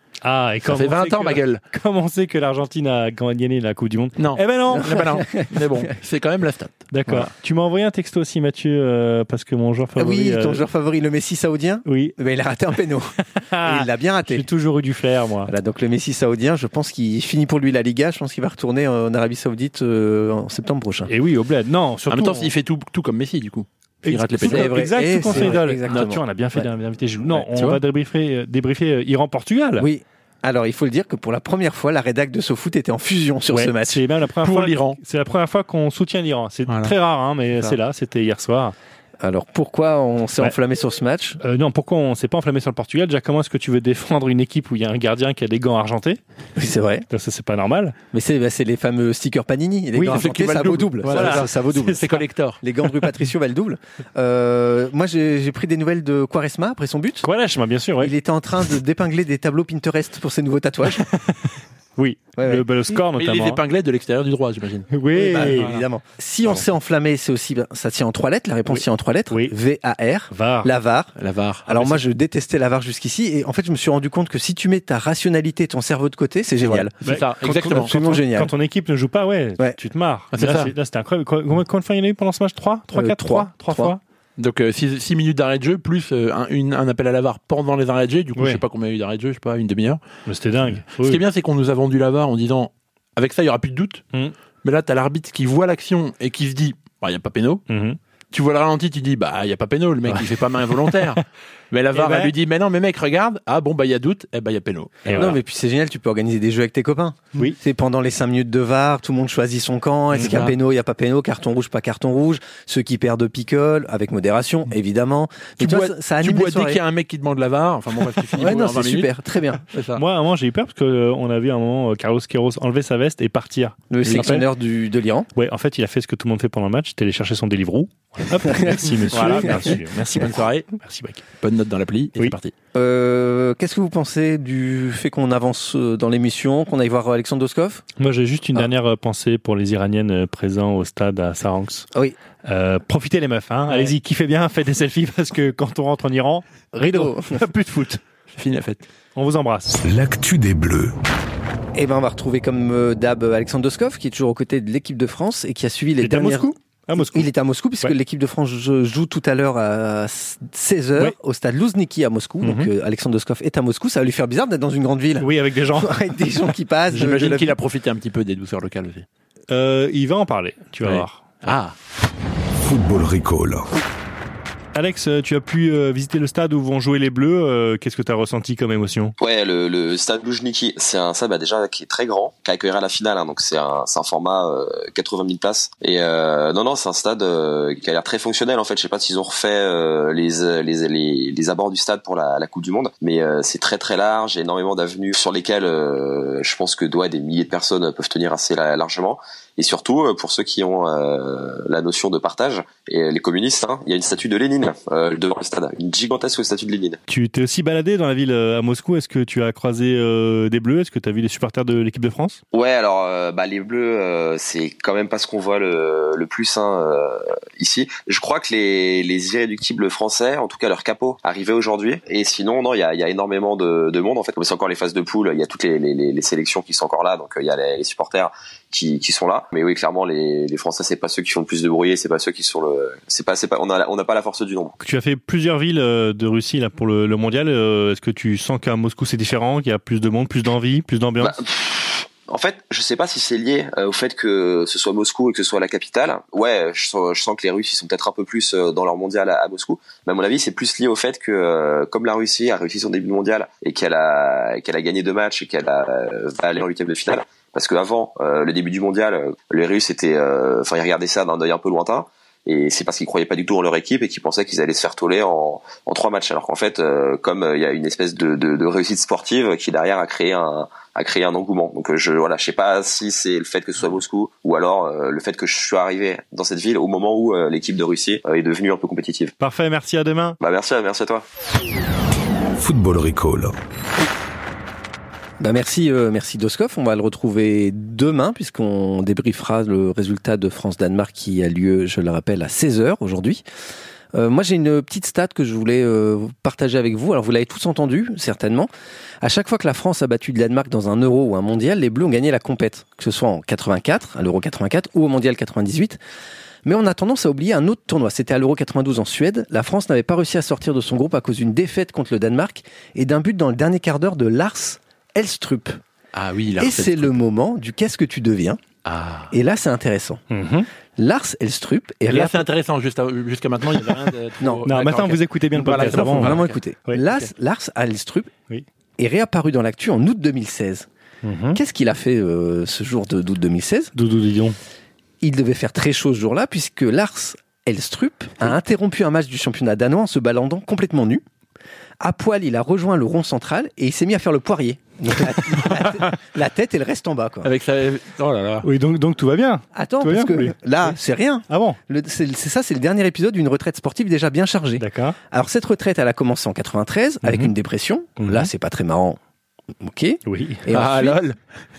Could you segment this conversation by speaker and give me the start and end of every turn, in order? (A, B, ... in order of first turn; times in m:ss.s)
0:00.2-0:05.0 A
0:00.6-0:01.6 B
0:04.2-0:07.3 B
0:04.7-0:05.6 C
0:06.9-0:10.6 A
0:10.0-0:14.5 C
0:11.8-0:12.2 A
0:13.4-0:15.5 A
0:15.5-0:21.1 C
0:21.1-0:22.5 A
0:22.1-0:26.1 B
0:24.0-0:29.8 A
0:24.4-0:26.6 C
0:27.3-0:27.8 B
0:29.8-0:34.0 C
0:33.5-0:38.7 A
0:34.4-0:35.0 B
0:36.7-0:36.9 B
0:39.2-0:41.4 C
0:41.4-0:46.2 A
0:46.6-0:47.0 C
0:47.1-0:48.0 A
0:48.1-0:57.2 C
0:49.9-0:50.2 A
0:50.0-0:52.6 B
0:51.0-0:52.1 A
0:57.2-0:58.1 A
0:58.0-1:01.1 C
1:01.0-1:03.6 A
1:02.4-1:02.6 C
1:03.1-1:05.8 B
1:04.9-1:05.7 A
1:05.1-1:11.1 C
1:08.7-1:09.5 A
1:10.3-1:10.7 A
1:11.2-1:12.0 B
1:11.7-1:16.9 C
1:16.6-1:18.2 B
1:17.0-1:24.0 A
1:17.4-1:18.5 C
1:20.3-1:20.7 B
1:22.9-1:23.9 C
1:24.4-1:30.0 B
1:28.4-1:28.6 A
1:30.2-1:31.2 A
1:30.6-1:34.0 B
1:34.6-1:37.6 B
1:37.7-1:38.0 A
1:38.3-1:45.4 B
1:41.9-1:42.3 A
1:45.0-1:45.4 A
1:45.1-1:56.8 C
1:50.1-1:50.5 A
1:50.2-1:50.6 B
1:55.6-1:59.1 B
1:58.4-1:59.6 C
1:59.7-2:00.0 B
1:59.9-2:04.5 A
2:03.9-2:05.3 C
2:04.0-2:04.4 B
2:05.3-2:11.2 A
2:08.6-2:09.6 C
2:09.1-2:10.7 B
2:11.4-2:12.5 B
2:12.7-2:17.8 C
2:18.0-2:21.9 A
2:22.4-2:28.0 A
2:26.7-2:27.4 C
2:28.3-2:28.9 B
2:29.1-2:29.8 A
2:29.8-2:30.9 D
2:31.7-2:47.5 C
2:36.0-2:37.3 A
2:42.4-2:42.7 A
2:45.2-2:46.0 A
2:46.9-2:49.0 B
2:49.5-2:51.2 A
2:50.8-2:51.7 B
2:52.6-2:53.7 D
2:54.7-2:59.1 A
2:59.2-3:27.0 E
3:27.1-3:32.4 A
3:32.5-3:54.7 E
3:54.8-4:01.4 A
4:01.2-4:39.3 E
4:39.4-4:40.4 A
4:40.4-4:41.2 E
4:42.6-4:43.5 D
4:45.4-4:53.4 C
4:54.1-4:58.7 C
4:59.2-5:06.0 C
5:06.6-5:15.8 C
5:16.1-5:17.2 B
5:16.6-5:18.6 C
5:18.8-5:19.3 B
5:19.3-5:20.2 C
5:20.3-5:20.7 A
5:21.0-5:22.4 C
5:22.1-5:26.6 B
5:24.6-5:27.0 A
5:25.6-5:28.3 C
5:29.0-5:30.9 C
5:31.2-5:31.6 A
5:31.5-5:33.9 C
5:33.9-5:34.6 A
5:35.2-5:41.2 C
5:42.0-5:47.5 C
5:47.4-5:48.7 B
5:48.6-5:50.6 A
5:49.7-5:59.2 C
5:51.5-5:51.8 A
5:54.8-5:55.2 A
5:57.2-5:57.5 A
5:58.2-5:58.5 A
5:59.8-6:01.2 C
6:00.2-6:00.6 A
6:00.7-6:01.4 B